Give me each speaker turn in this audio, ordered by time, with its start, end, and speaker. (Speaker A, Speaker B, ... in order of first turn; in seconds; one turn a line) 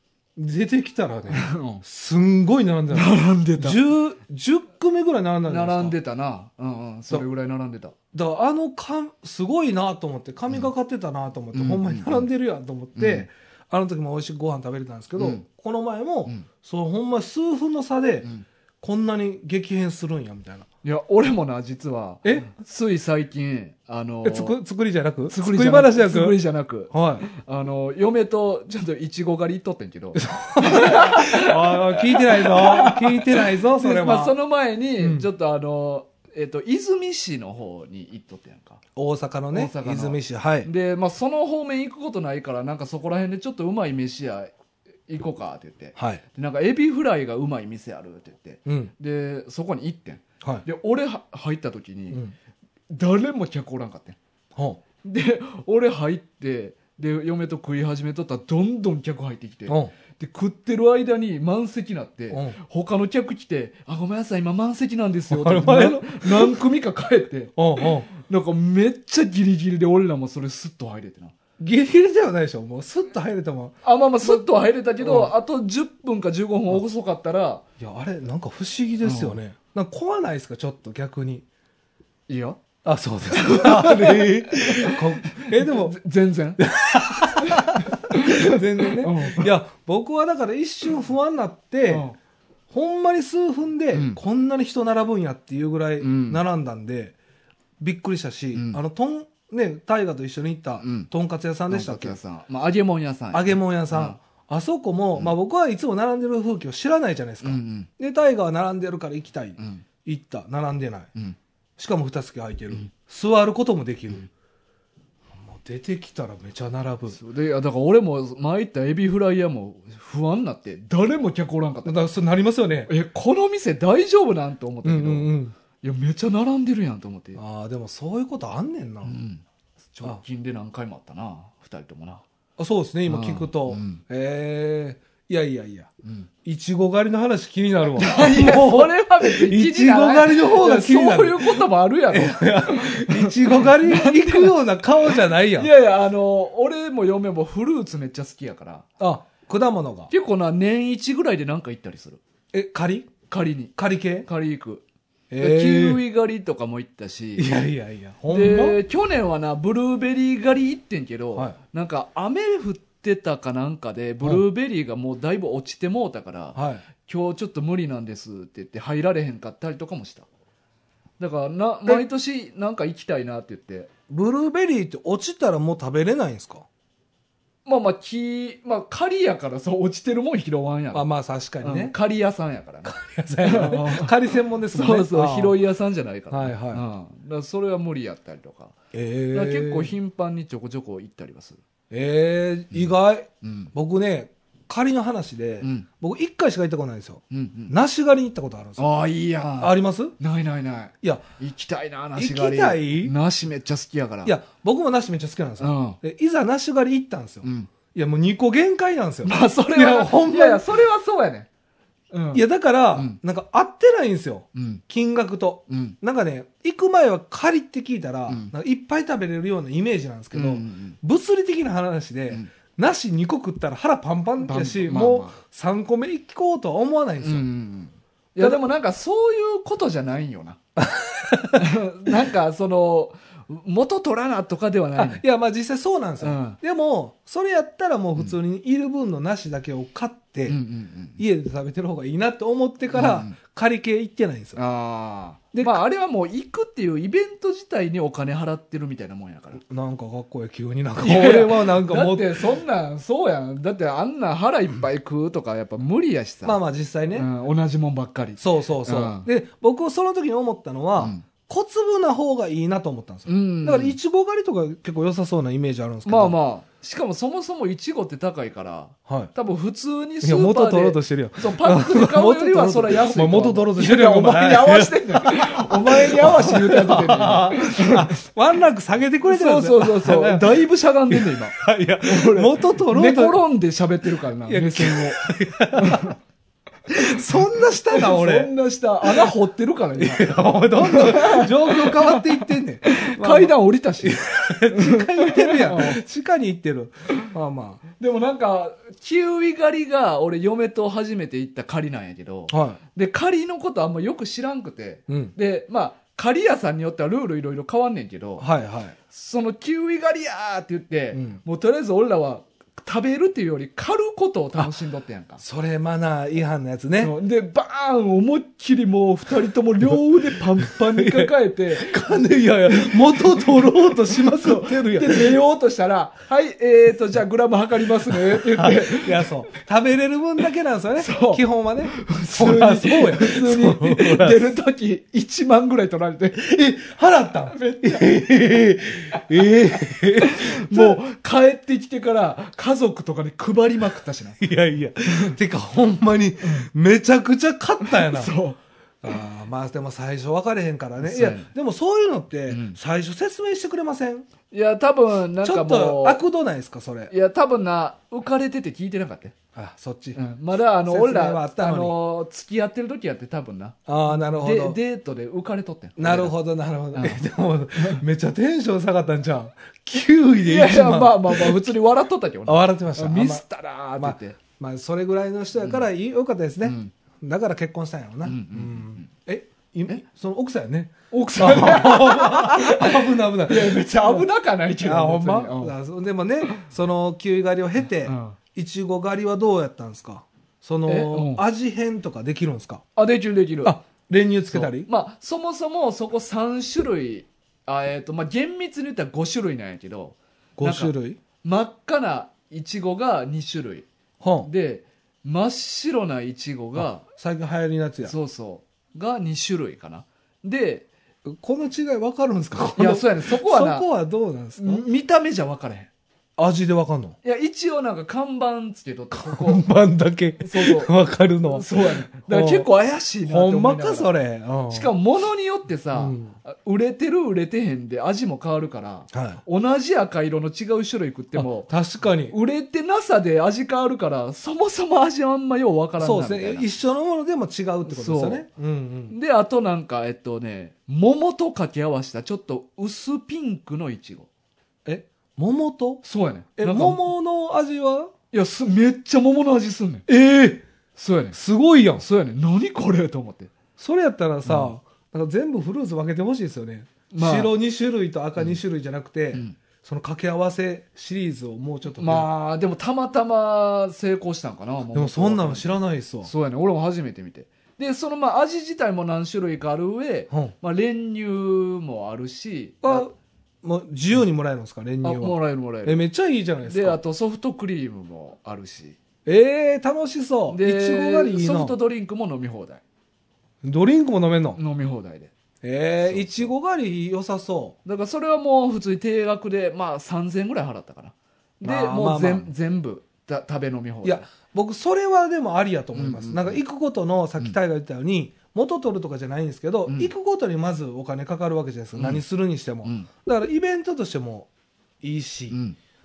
Speaker A: 0.3-5.9
Speaker B: 1.3-1.8
Speaker B: 2.9-3.8
Speaker B: 5.5-7.9
Speaker A: 8.1-18.3
Speaker B: 11.5-12.3
Speaker B: 12.9-13.3
Speaker B: 15.2-15.4
Speaker A: 18.8-20.7
Speaker B: 20.8-24.6
Speaker A: 22.2-22.5
Speaker A: 24.2-26.4
Speaker B: 25.3-38.8
Speaker A: 26.9-27.2
Speaker A: 30.2-34.3
Speaker A: 35.0-35.2
Speaker A: 39.0-40.7
Speaker B: 39.5-44.5
Speaker B: 45.1-52.2
Speaker A: 48.6-48.9
Speaker B: 52.9-54.2
Speaker B: 55.0-71.3
Speaker A: 59.7-59.9
Speaker A: 62.3-62.6
Speaker A: 65.3-66.6
Speaker A: 67.6-68.1
Speaker A: 71.6-74.5
Speaker B: 73.8-77.6
Speaker A: 75.0-75.3
Speaker A: 77.8-81.5
Speaker B: 79.0-79.4
Speaker B: 82.3-82.6
Speaker A: 82.8-86.0
Speaker B: 83.3-86.6
Speaker A: 86.6-92.1
Speaker B: 87.2-89.5
Speaker B: 91.9-92.2
Speaker A: 92.7-97.1
Speaker B: 93.9-94.2
Speaker B: 96.0-96.4
Speaker A: 97.8-102.2
Speaker B: 98.5-98.8
Speaker B: 100.8-101.1
Speaker B: 101.7-104.2
Speaker A: 103.3-111.1
Speaker B: 107.4-107.9
Speaker B: 109.6-109.8
Speaker A: 111.8-114.3
Speaker A: 115.4-117.2
Speaker B: 117.1-122.1
Speaker A: 121.8-122.9
Speaker B: 122.9-127.4
Speaker A: 124.8-125.5
Speaker A: 127.3-129.2
Speaker B: 129.0-132.2
Speaker A: 132.6-135.9
Speaker B: 133.1-134.0
Speaker A: 136.4-145.7
Speaker B: 138.0-148.8
Speaker A: 149.0-150.1
Speaker B: 150.1-152.2
Speaker A: 152.5-153.2
Speaker B: 153.3-154.8
Speaker A: 153.8-154.3
Speaker A: 155.3-156.0
Speaker B: 155.4-157.6
Speaker A: 157.4-158.8
Speaker B: 158.3-170.3
Speaker A: 166.5-166.8
Speaker B: 171.2-173.9
Speaker A: 174.1-176.7
Speaker B: 177.6-181.1
Speaker A: 180.9-181.9
Speaker B: 181.6-188.7
Speaker A: 182.8-185.6
Speaker A: 186.3-186.8
Speaker A: 188.9-189.9
Speaker B: 189.3-191.6
Speaker A: 191.9-198.8
Speaker B: 193.4-193.7
Speaker B: 195.6-195.8
Speaker B: 197.3-197.7
Speaker B: 198.8-204.3
Speaker A: 199.6-200.1
Speaker A: 202.2-203.1
Speaker A: 204.2-210.6
Speaker B: 205.6-206.0
Speaker B: 207.4-207.7
Speaker B: 209.2-211.5
Speaker B: 212.1-212.4
Speaker A: 212.3-227.4
Speaker B: 212.9-213.2
Speaker B: 214.5-214.8
Speaker B: 215.7-215.9
Speaker B: 220.3-221.0
Speaker B: 224.4-225.3
Speaker B: 227.2-230.6
Speaker A: 230.8-232.2
Speaker B: 231.5-235.2
Speaker A: 234.9-240.6
Speaker B: 236.2-236.6
Speaker B: 240.5-241.2
Speaker A: 241.2-244.6
Speaker B: 242.9-243.3
Speaker B: 244.5-249.6
Speaker A: 245.5-245.8
Speaker A: 249.6-252.4
Speaker B: 251.0-256.6
Speaker A: 256.4-257.3
Speaker B: 257.1-259.3
Speaker A: 258.4-266.3
Speaker B: 261.0-261.2
Speaker B: 263.3-263.9
Speaker B: 266.1-278.1
Speaker A: 269.1-269.3
Speaker A: 270.2-283.4
Speaker B: 279.3-286.1
Speaker A: 284.4-286.1
Speaker A: 286.9-288.5
Speaker B: 287.9-296.0
Speaker A: 289.0-289.3
Speaker A: 290.0-297.8
Speaker B: 298.0-308.4
Speaker A: 302.5-302.8
Speaker A: 305.1-305.3
Speaker A: 308.4-308.9
Speaker B: 309.1-315.4
Speaker A: 311.1-311.4
Speaker A: 315.4-317.1
Speaker B: 317.0-329.3
Speaker A: 319.9-325.4
Speaker A: 328.1-334.5
Speaker B: 331.0-336.4
Speaker A: 336.4-341.0
Speaker B: 337.5-338.2
Speaker B: 339.1-344.4
Speaker A: 344.4-348.3
Speaker B: 346.4-346.7
Speaker B: 347.8-348.6
Speaker A: 349.0-354.3
Speaker B: 351.0-351.5
Speaker B: 352.5-352.8
Speaker B: 354.5-356.2
Speaker A: 355.4-357.1
Speaker B: 357.1-359.3
Speaker A: 359.5-360.2
Speaker B: 360.1-366.4
Speaker A: 360.9-361.9
Speaker A: 363.9-364.8
Speaker A: 366.0-371.8
Speaker B: 366.9-367.2
Speaker B: 370.4-374.4
Speaker A: 372.4-373.4
Speaker A: 374.0-384.3
Speaker B: 376.6-376.9
Speaker B: 378.2-379.1
Speaker B: 381.1-385.7
Speaker A: 384.8-392.8
Speaker B: 388.0-388.4
Speaker B: 390.9-391.4
Speaker B: 392.9-393.8
Speaker A: 393.6-394.9
Speaker B: 394.5-403.9
Speaker A: 400.6-401.2
Speaker A: 404.2-404.5
Speaker B: 404.4-407.0
Speaker A: 406.8-408.1
Speaker B: 408.0-410.9
Speaker A: 411.2-414.8
Speaker B: 412.8-413.9
Speaker B: 414.6-415.9
Speaker A: 416.4-417.1
Speaker B: 417.2-419.6
Speaker A: 419.1-422.7
Speaker B: 420.4-420.9
Speaker B: 421.4-424.1
Speaker A: 423.2-424.9
Speaker B: 424.7-431.7
Speaker A: 425.9-426.3
Speaker A: 429.1-429.4
Speaker A: 431.3-432.3
Speaker B: 432.2-436.6
Speaker A: 436.0-439.1
Speaker B: 437.8-438.4
Speaker B: 439.1-444.3
Speaker A: 444.8-446.0
Speaker B: 446.0-447.0
Speaker A: 446.6-448.1
Speaker B: 448.3-450.1
Speaker A: 450.1-450.6
Speaker B: 450.9-451.4
Speaker A: 451.3-452.0
Speaker B: 452.0-453.5
Speaker A: 453.8-462.3
Speaker B: 454.4-454.7
Speaker B: 457.1-457.5
Speaker B: 462.0-473.1
Speaker A: 464.9-466.3
Speaker A: 472.8-473.1
Speaker A: 473.6-477.0
Speaker B: 475.0-476.0
Speaker B: 476.6-479.0
Speaker A: 479.2-481.7
Speaker B: 480.5-482.8
Speaker A: 483.6-484.6
Speaker B: 484.6-485.3
Speaker A: 485.6-487.8
Speaker B: 486.0-486.5
Speaker B: 487.8-494.3
Speaker A: 491.6-492.5
Speaker A: 494.0-504.5
Speaker B: 495.9-496.6
Speaker B: 501.9-502.2
Speaker B: 502.8-503.1
Speaker A: 505.0-505.6
Speaker B: 505.5-505.8